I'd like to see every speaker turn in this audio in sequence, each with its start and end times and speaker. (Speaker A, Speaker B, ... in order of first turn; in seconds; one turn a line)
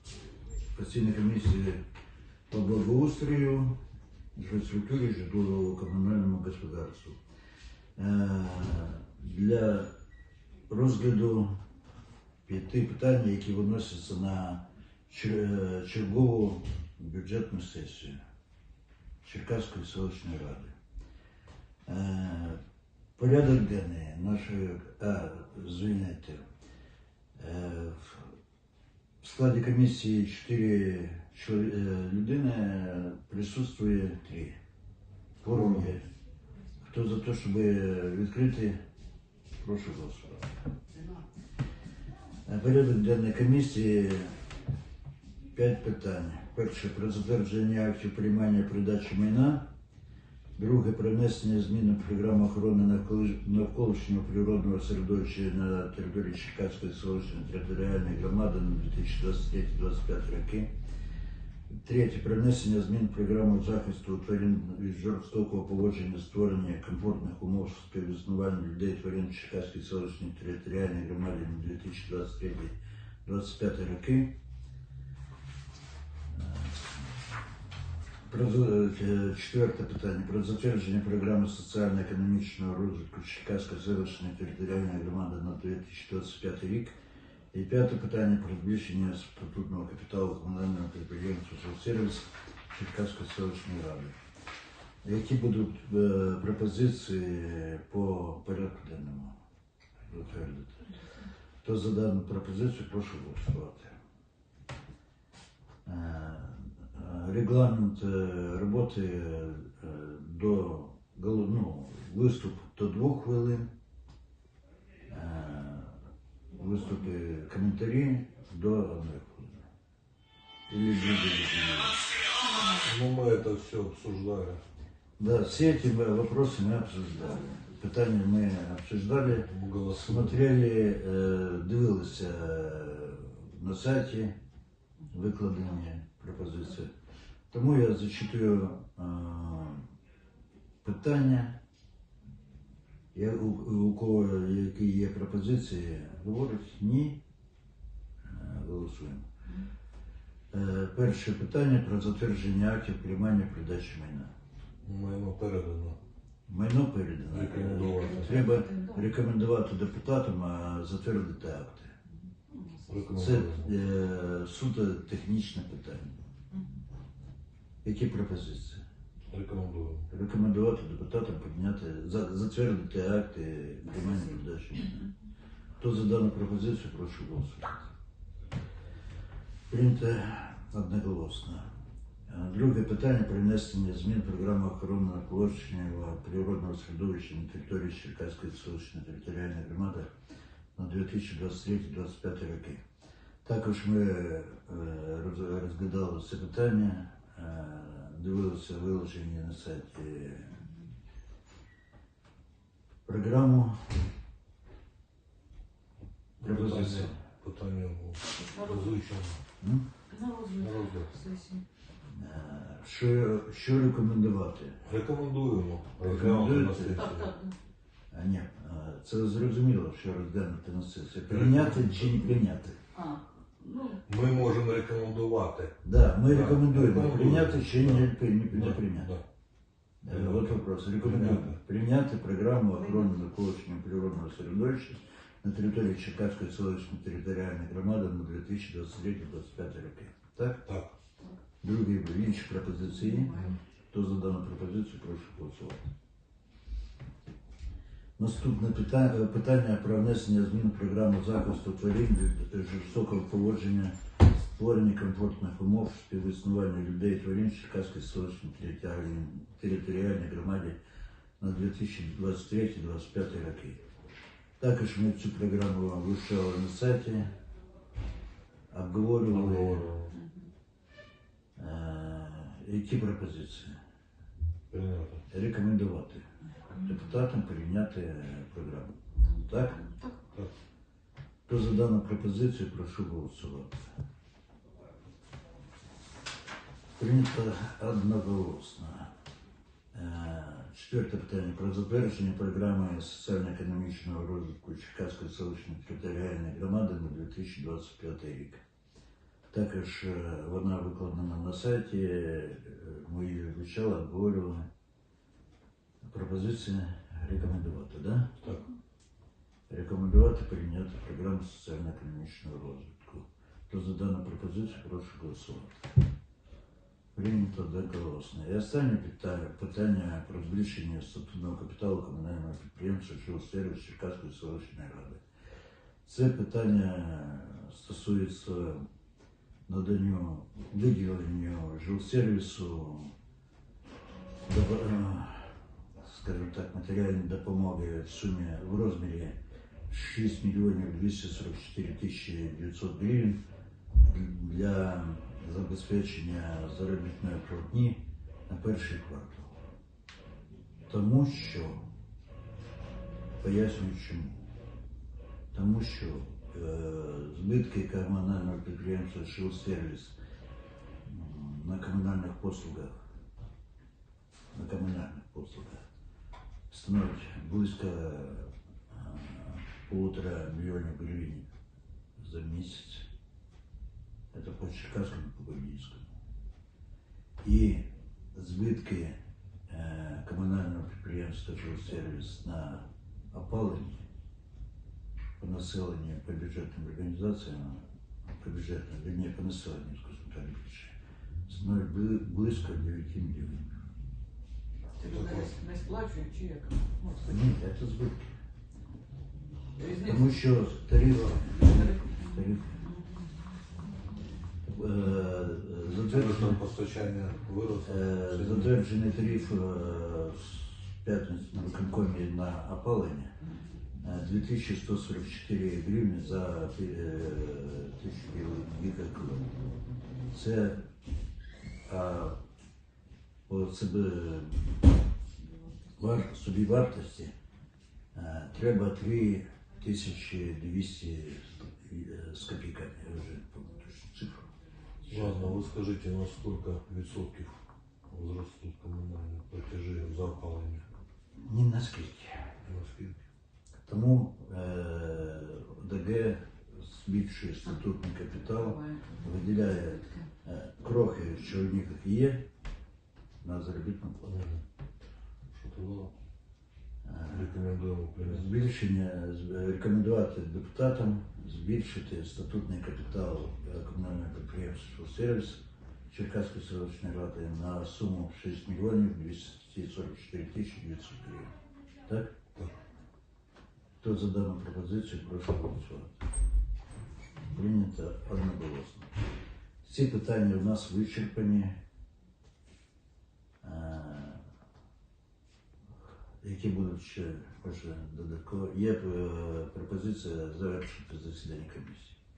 Speaker A: 0.7-1.8
Speaker A: 2.5-3.8
Speaker A: 4.3-7.2
Speaker A: 8.0-9.9
Speaker A: 10.7-11.6
Speaker A: 12.4-18.2
Speaker A: 19.2-20.7
Speaker A: 21.9-22.6
Speaker A: 23.2-26.4
Speaker A: 27.4-28.3
Speaker A: 29.2-34.5
Speaker B: 35.4-36.0
Speaker A: 35.4-36.0
Speaker A: 36.9-38.8
Speaker A: 39.6-40.6
Speaker A: 42.5-44.3
Speaker A: 45.5-49.6
Speaker A: 50.5-60.7
Speaker A: 61.8-74.3
Speaker A: 76.3-77.1
Speaker A: 78.2-87.0
Speaker A: 87.5-94.2
Speaker A: 95.0-99.3
Speaker A: 100.1-100.9
Speaker A: 101.6-104.0
Speaker A: 105.8-113.7
Speaker A: 115.1-116.0
Speaker A: 116.5-119.7
Speaker A: 120.7-122.0
Speaker B: 122.7-124.6
Speaker A: 125.2-134.3
Speaker B: 129.4-130.4
Speaker A: 135.1-136.9
Speaker A: 137.5-139.8
Speaker A: 140.8-141.6
Speaker A: 143.1-147.2
Speaker A: 148.2-149.2
Speaker A: 150.5-154.3
Speaker B: 154.8-156.0
Speaker A: 156.5-161.9
Speaker B: 157.3-158.5
Speaker C: 157.7-159.1
Speaker C: 162.5-163.0
Speaker B: 162.9-163.7
Speaker A: 163.1-166.2
Speaker A: 167.8-168.8
Speaker B: 169.3-170.1
Speaker A: 170.1-175.1
Speaker C: 173.9-174.2
Speaker A: 175.8-177.9
Speaker A: 179.7-181.7
Speaker A: 182.3-190.1
Speaker A: 190.7-192.8
Speaker A: 193.4-200.6
Speaker A: 203.1-203.9
Speaker B: 206.4-209.4
Speaker A: 206.4-207.2
Speaker C: 208.4-208.9
Speaker A: 209.6-209.9
Speaker C: 210.1-211.6
Speaker B: 210.6-211.1
Speaker A: 212.1-214.8
Speaker B: 214.8-217.3
Speaker A: 216.0-217.1
Speaker C: 216.9-217.5
Speaker A: 218.1-222.8
Speaker B: 221.3-222.3
Speaker C: 222.9-224.0
Speaker B: 224.1-229.2
Speaker A: 225.8-229.1
Speaker A: 230.0-240.6
Speaker B: 230.1-231.6
Speaker B: 240.6-240.9
Speaker A: 241.6-245.9
Speaker C: 243.1-243.5
Speaker A: 248.2-253.9
Speaker A: 254.5-260.8
Speaker A: 261.4-263.8
Speaker A: 264.6-267.3
Speaker A: 268.7-269.9
Speaker B: 269.3-270.1
Speaker A: 271.6-273.8
Speaker B: 274.7-275.2
Speaker A: 275.3-279.8
Speaker C: 279.3-280.2
Speaker A: 281.5-283.9
Speaker A: 287.0-289.1
Speaker A: 289.9-298.6
Speaker A: 299.5-304.7
Speaker A: 306.0-308.5
Speaker A: 309.7-315.9
Speaker A: 317.1-325.2
Speaker A: 326.0-328.8
Speaker A: 329.7-333.1
Speaker A: 334.4-335.5
Speaker A: 336.0-339.4
Speaker A: 339.9-343.4
Speaker A: 344.0-349.6
Speaker A: 350.9-351.9
Speaker A: 353.4-354.4
Speaker A: 355.5-360.2
Speaker A: 361.0-363.0
Speaker A: 364.5-365.8
Speaker A: 366.7-371.5
Speaker A: 372.2-373.1
Speaker A: 374.3-376.1
Speaker A: 377.4-379.1
Speaker A: 379.7-384.0
Speaker A: 385.4-387.8
Speaker A: 388.4-390.9
Speaker A: 391.5-393.7
Speaker C: 395.0-397.4
Speaker B: 395.1-395.5
Speaker A: 397.2-398.3
Speaker C: 399.8-400.2
Speaker A: 399.8-402.9
Speaker C: 401.6-403.1
Speaker A: 404.7-406.6
Speaker B: 406.0-408.8
Speaker A: 407.8-413.3
Speaker A: 414.0-419.4
Speaker A: 420.3-420.8
Speaker A: 421.9-422.4
Speaker A: 423.5-424.8
Speaker A: 425.9-427.3
Speaker A: 428.1-434.4
Speaker A: 435.0-435.6
Speaker B: 435.1-440.8
Speaker A: 441.4-442.4
Speaker B: 442.6-443.2
Speaker A: 443.9-452.4
Speaker C: 448.5-450.2
Speaker A: 453.4-454.3
Speaker B: 454.2-454.6
Speaker B: 455.5-456.1
Speaker A: 457.0-457.5
Speaker B: 457.3-458.6
Speaker A: 458.2-471.5
Speaker A: 472.1-472.3
Speaker A: 474.0-476.2
Speaker A: 477.4-479.1
Speaker A: 479.8-481.8
Speaker A: 483.6-484.4
Speaker A: 486.4-492.2